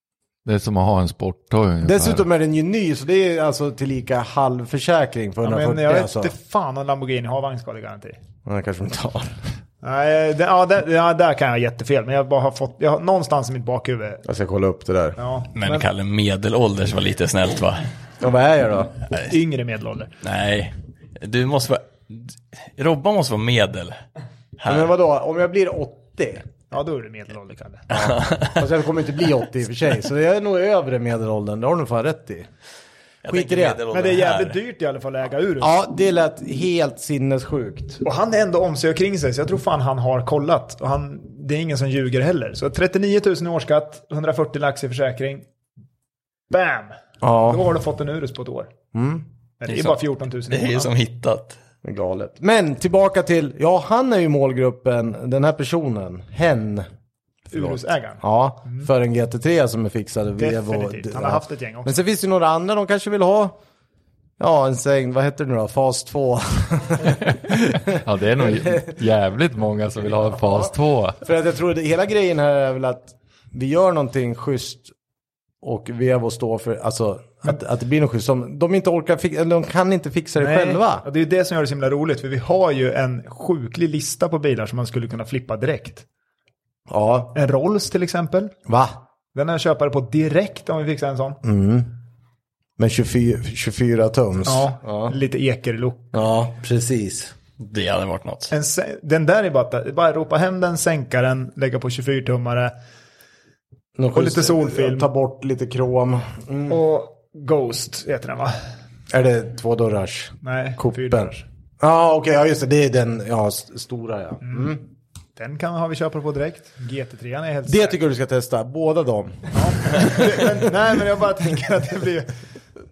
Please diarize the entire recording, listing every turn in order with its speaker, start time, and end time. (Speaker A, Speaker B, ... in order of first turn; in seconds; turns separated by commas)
Speaker A: 0.4-2.2, Speaker B: 1.8-6.3, Speaker C: 5.4-8.2, Speaker B: 8.4-9.3, Speaker C: 9.8-14.2, Speaker B: 14.2-15.8, Speaker C: 15.2-15.5, Speaker D: 15.5-17.8, Speaker B: 18.2-18.9, Speaker C: 19.2-20.1, Speaker D: 20.2-24.0, Speaker D: 24.6-24.9, Speaker B: 24.6-26.5, Speaker C: 26.7-27.9, Speaker D: 27.9-28.6, Speaker B: 27.9-32.5, Speaker D: 33.2-34.6, Speaker B: 33.3-33.8, Speaker C: 33.9-35.8, Speaker B: 35.6-38.0, Speaker C: 38.0-45.5, Speaker C: 46.5-48.7, Speaker B: 47.2-47.7, Speaker B: 48.9-49.2, Speaker C: 49.6-50.9, Speaker D: 49.7-50.0, Speaker D: 50.5-51.6, Speaker B: 51.8-56.9, Speaker B: 57.5-63.6, Speaker C: 57.5-58.9, Speaker C: 60.4-61.9, Speaker B: 64.4-68.9, Speaker A: 67.9-71.2, Speaker B: 70.1-74.9, Speaker B: 75.6-81.0, Speaker C: 80.4-86.0, Speaker B: 86.9-87.3, Speaker C: 87.3-88.5, Speaker B: 88.7-89.0, Speaker C: 89.3-91.4, Speaker B: 91.4-91.9, Speaker B: 92.8-95.1, Speaker C: 94.5-96.1, Speaker B: 96.1-97.3, Speaker D: 97.6-98.5, Speaker C: 98.5-102.7, Speaker B: 104.0-106.8, Speaker C: 104.1-105.1, Speaker C: 106.7-108.5, Speaker B: 109.1-114.8, Speaker C: 110.4-111.4, Speaker C: 114.4-114.8, Speaker C: 115.3-118.0, Speaker B: 117.7-120.5, Speaker C: 119.5-122.4